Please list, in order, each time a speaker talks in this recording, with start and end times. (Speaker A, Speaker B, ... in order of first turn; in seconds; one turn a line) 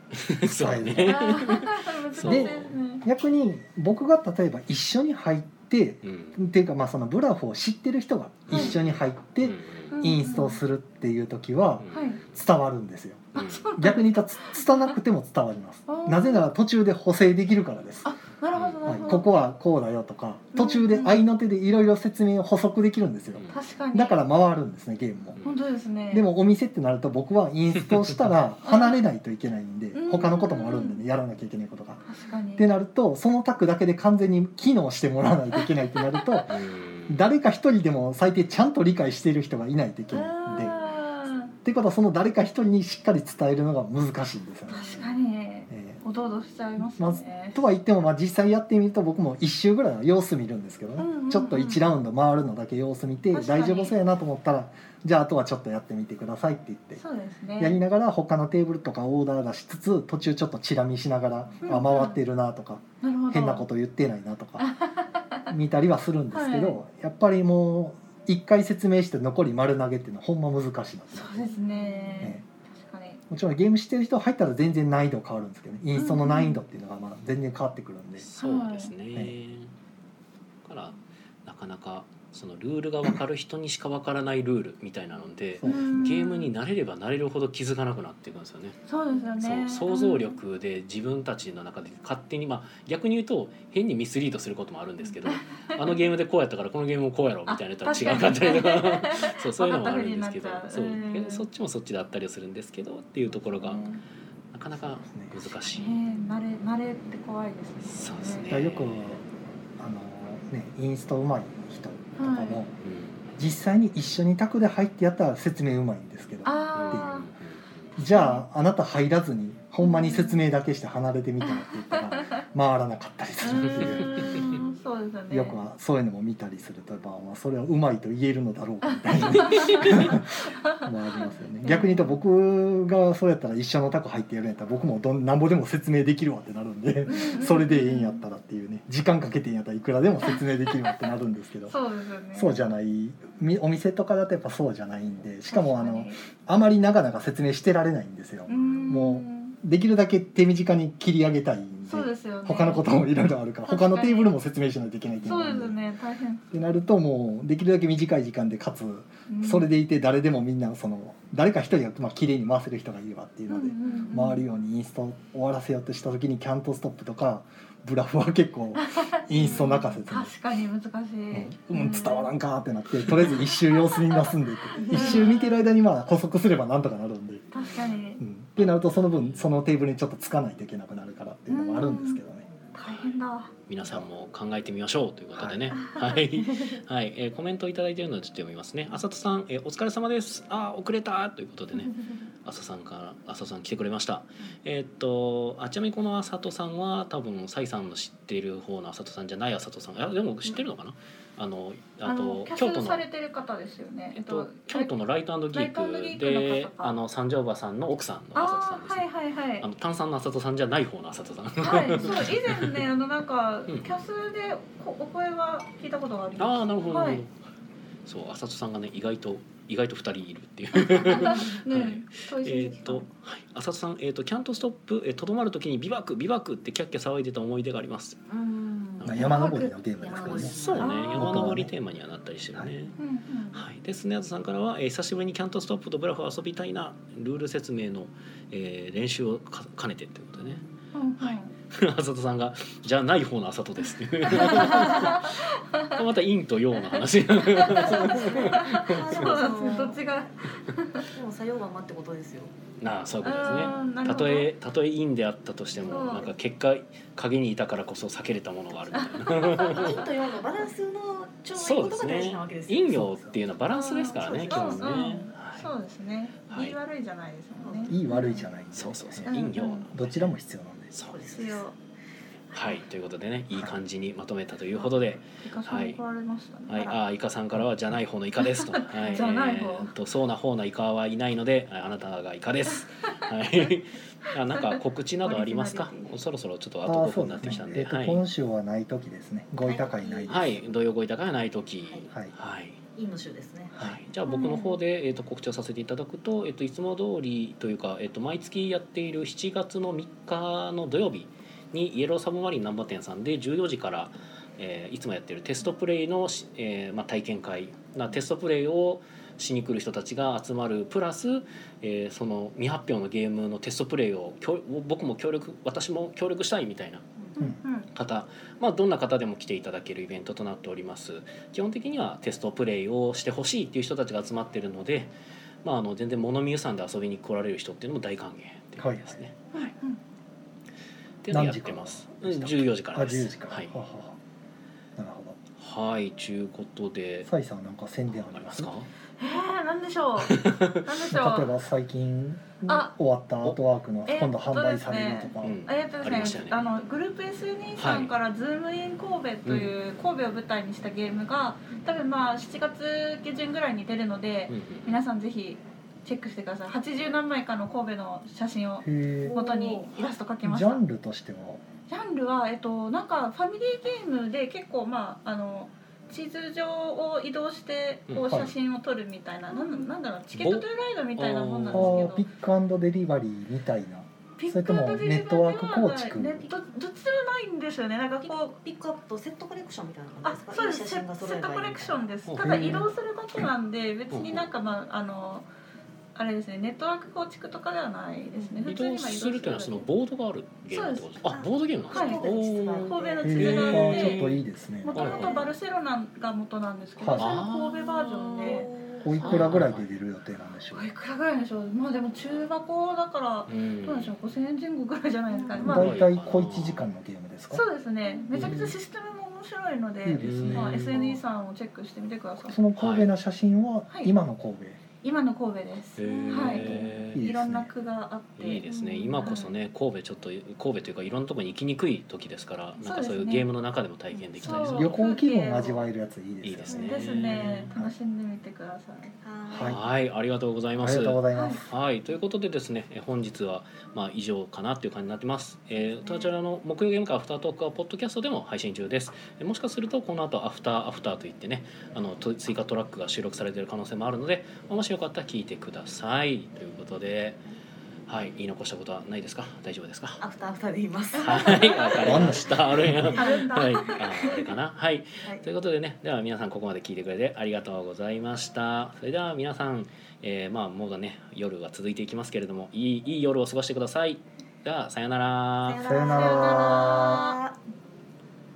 Speaker A: 0.1-2.8
Speaker B: 0.4-1.6
Speaker C: 1.0-3.0
Speaker B: 2.2-18.1
Speaker A: 6.0-6.4
Speaker A: 8.5-10.0
Speaker C: 8.5-8.8
Speaker C: 9.9-10.6
Speaker A: 11.8-12.2
Speaker C: 11.9-12.2
Speaker C: 13.3-14.9
Speaker A: 13.3-13.7
Speaker C: 15.9-16.5
Speaker C: 18.1-19.3
Speaker A: 18.5-18.9
Speaker B: 18.9-25.4
Speaker C: 20.5-21.2
Speaker C: 23.5-24.2
Speaker C: 25.4-26.3
Speaker B: 26.1-32.0
Speaker C: 28.6-29.0
Speaker C: 29.9-31.0
Speaker C: 32.1-32.7
Speaker B: 32.6-36.5
Speaker C: 35.6-36.4
Speaker A: 36.5-37.2
Speaker B: 37.1-40.8
Speaker C: 40.1-41.5
Speaker B: 41.6-45.1
Speaker C: 44.7-47.6
Speaker B: 45.7-46.0
Speaker B: 46.8-57.0
Speaker C: 51.0-51.8
Speaker C: 53.3-54.0
Speaker C: 57.0-57.8
Speaker B: 57.6-64.7
Speaker C: 61.6-62.2
Speaker C: 63.0-63.6
Speaker C: 64.6-65.5
Speaker B: 65.5-71.5
Speaker C: 66.3-66.8
Speaker C: 71.1-73.2
Speaker D: 71.8-72.3
Speaker B: 73.3-78.3
Speaker C: 76.0-76.6
Speaker A: 78.2-79.7
Speaker C: 78.4-78.9
Speaker A: 80.7-88.8
Speaker B: 85.6-86.2
Speaker C: 85.6-86.5
Speaker C: 88.9-90.4
Speaker A: 89.4-103.8
Speaker C: 95.3-96.1
Speaker C: 97.5-101.5
Speaker C: 103.4-104.0
Speaker A: 104.5-106.0
Speaker B: 104.8-105.5
Speaker C: 105.7-108.5
Speaker A: 107.8-109.2
Speaker B: 108.5-109.2
Speaker B: 109.8-112.7
Speaker C: 112.2-112.6
Speaker A: 112.8-113.3
Speaker B: 113.4-117.3
Speaker C: 116.5-117.3
Speaker A: 116.7-117.9
Speaker B: 118.0-124.5
Speaker C: 118.1-118.5
Speaker C: 119.8-120.4
Speaker C: 121.4-122.3
Speaker C: 123.4-125.6
Speaker A: 123.6-124.7
Speaker B: 125.3-141.8
Speaker C: 128.9-132.2
Speaker A: 129.4-129.9
Speaker C: 137.1-138.2
Speaker C: 140.2-141.0
Speaker C: 141.7-142.7
Speaker B: 142.3-155.8
Speaker C: 145.5-146.2
Speaker C: 148.5-149.6
Speaker C: 151.9-152.9
Speaker C: 153.7-154.3
Speaker C: 155.2-156.4
Speaker B: 156.5-170.3
Speaker C: 159.3-159.7
Speaker C: 163.5-164.5
Speaker C: 168.8-172.3
Speaker B: 171.3-177.5
Speaker C: 173.3-175.5
Speaker D: 174.9-175.3
Speaker A: 175.0-175.2
Speaker C: 177.5-178.2
Speaker D: 177.6-178.0
Speaker B: 178.2-182.4
Speaker A: 179.2-179.5
Speaker C: 181.5-182.2
Speaker C: 182.7-183.5
Speaker A: 183.7-203.1
Speaker B: 185.4-185.7
Speaker C: 185.7-186.2
Speaker C: 202.0-204.9
Speaker A: 204.1-209.1
Speaker C: 205.5-207.0
Speaker C: 208.3-209.7
Speaker A: 209.6-212.8
Speaker C: 211.6-217.2
Speaker A: 213.7-213.9
Speaker A: 216.4-217.3
Speaker A: 218.1-228.2
Speaker C: 220.8-223.1
Speaker D: 221.2-221.6
Speaker D: 228.3-229.3
Speaker A: 229.0-229.4
Speaker B: 229.1-231.7
Speaker C: 229.1-229.8
Speaker D: 230.0-231.1
Speaker A: 230.2-232.9
Speaker C: 230.8-231.5
Speaker C: 233.0-233.6
Speaker A: 233.5-240.6
Speaker D: 240.4-240.8
Speaker C: 240.9-241.5
Speaker A: 241.2-249.4
Speaker C: 244.3-245.9
Speaker C: 247.4-251.1
Speaker D: 247.7-250.3
Speaker D: 251.1-252.5
Speaker A: 252.8-260.1
Speaker C: 253.2-254.5
Speaker C: 255.8-256.3
Speaker C: 259.0-260.1
Speaker D: 259.3-263.1
Speaker A: 261.5-265.7
Speaker B: 262.9-263.4
Speaker C: 263.7-268.5
Speaker D: 264.1-265.1
Speaker A: 266.5-266.8
Speaker D: 267.6-268.4
Speaker B: 267.9-270.9
Speaker A: 268.7-270.3
Speaker C: 269.3-269.9
Speaker D: 271.0-271.7
Speaker C: 271.3-271.8
Speaker A: 272.5-276.0
Speaker C: 275.2-276.9
Speaker A: 276.7-288.2
Speaker D: 276.7-277.0
Speaker C: 278.4-279.9
Speaker C: 284.6-286.1
Speaker B: 286.9-290.5
Speaker D: 289.6-290.6
Speaker A: 290.3-292.8
Speaker D: 292.9-293.8
Speaker B: 293.7-294.0
Speaker A: 293.8-317.0
Speaker C: 294.3-294.8
Speaker C: 317.4-317.9
Speaker A: 317.9-325.1
Speaker A: 325.6-329.7
Speaker B: 328.8-329.2
Speaker C: 329.6-330.0
Speaker A: 331.2-333.7
Speaker B: 331.3-334.2
Speaker B: 335.0-335.4
Speaker A: 335.6-337.3
Speaker B: 337.2-338.7
Speaker A: 338.1-338.9
Speaker C: 339.2-341.5
Speaker A: 340.2-340.9
Speaker B: 341.1-345.6
Speaker C: 342.7-342.9
Speaker C: 344.1-360.8
Speaker A: 345.4-346.6
Speaker A: 347.8-348.1
Speaker A: 349.5-349.7
Speaker A: 354.5-355.0
Speaker B: 358.8-359.4
Speaker D: 359.2-360.1
Speaker B: 360.4-361.6
Speaker C: 361.9-372.2
Speaker A: 368.1-368.5
Speaker B: 368.3-368.5
Speaker D: 369.5-369.9
Speaker A: 370.3-372.1
Speaker B: 371.7-376.5
Speaker C: 374.4-378.6
Speaker D: 378.2-382.0
Speaker C: 380.2-385.5
Speaker A: 382.3-382.9
Speaker B: 382.4-382.9
Speaker A: 384.1-384.5
Speaker C: 386.1-389.9
Speaker D: 388.3-388.6
Speaker A: 388.7-395.5
Speaker C: 390.7-391.2
Speaker D: 391.3-393.8
Speaker C: 391.9-394.3
Speaker B: 393.2-395.2
Speaker C: 394.8-398.7
Speaker D: 394.9-395.6
Speaker B: 397.0-397.4
Speaker A: 397.2-397.9
Speaker D: 397.8-399.5
Speaker B: 399.0-400.9
Speaker A: 399.2-399.9
Speaker C: 400.7-405.9
Speaker A: 403.5-404.2
Speaker D: 405.3-405.9
Speaker B: 405.6-407.6
Speaker A: 405.6-406.9
Speaker C: 407.5-412.6
Speaker D: 408.1-408.6
Speaker B: 408.3-408.8
Speaker B: 410.0-411.0
Speaker A: 410.2-411.2
Speaker D: 410.7-411.1
Speaker B: 412.4-414.8
Speaker A: 412.8-413.1
Speaker C: 415.0-418.6
Speaker A: 416.0-417.2
Speaker D: 416.1-416.6
Speaker B: 416.5-417.7
Speaker A: 418.4-425.0
Speaker D: 418.7-419.3
Speaker C: 419.2-419.5
Speaker C: 422.8-423.5
Speaker D: 424.1-424.7
Speaker C: 424.4-425.9
Speaker B: 424.6-427.9
Speaker A: 426.4-427.7
Speaker D: 426.7-427.1
Speaker C: 426.9-429.1
Speaker D: 429.2-429.8
Speaker B: 429.5-429.8
Speaker A: 429.6-447.4
Speaker B: 430.8-431.7
Speaker C: 431.3-431.6
Speaker D: 436.0-436.3
Speaker A: 448.1-450.2
Speaker D: 450.2-454.5
Speaker A: 451.2-465.8
Speaker C: 451.3-451.6
Speaker B: 452.0-453.1
Speaker C: 453.2-454.0
Speaker D: 465.6-467.6
Speaker B: 465.8-467.3
Speaker C: 465.9-467.4